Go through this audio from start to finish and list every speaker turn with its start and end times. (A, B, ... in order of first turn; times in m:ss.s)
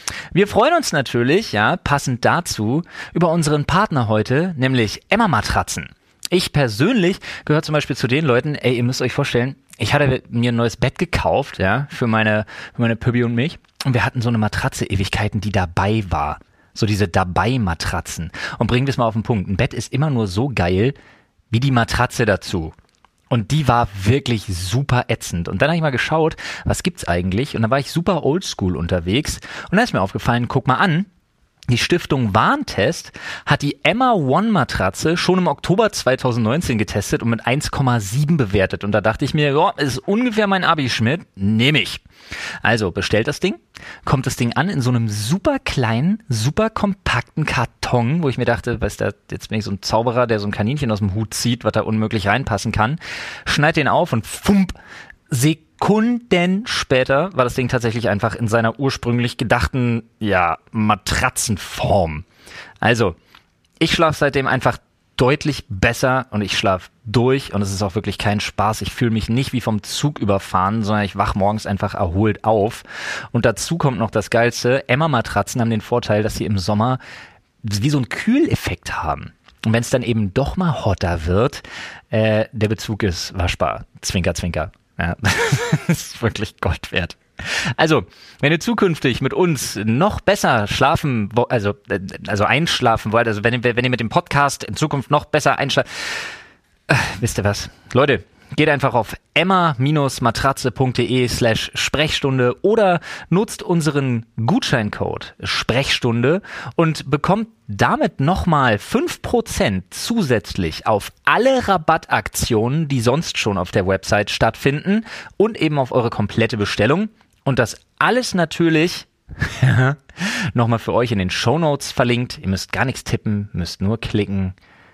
0:00.3-0:21.0 A
0:21.5-0:22.7 A
0:23.3-0:31.1 A
0:31.7-0:42.0 A
0:42.6-0:54.8 A
0:55.3-1:02.2 A
1:02.8-1:03.2 A
1:03.8-1:17.0 A
1:17.6-1:36.3 A
1:36.9-2:04.6 A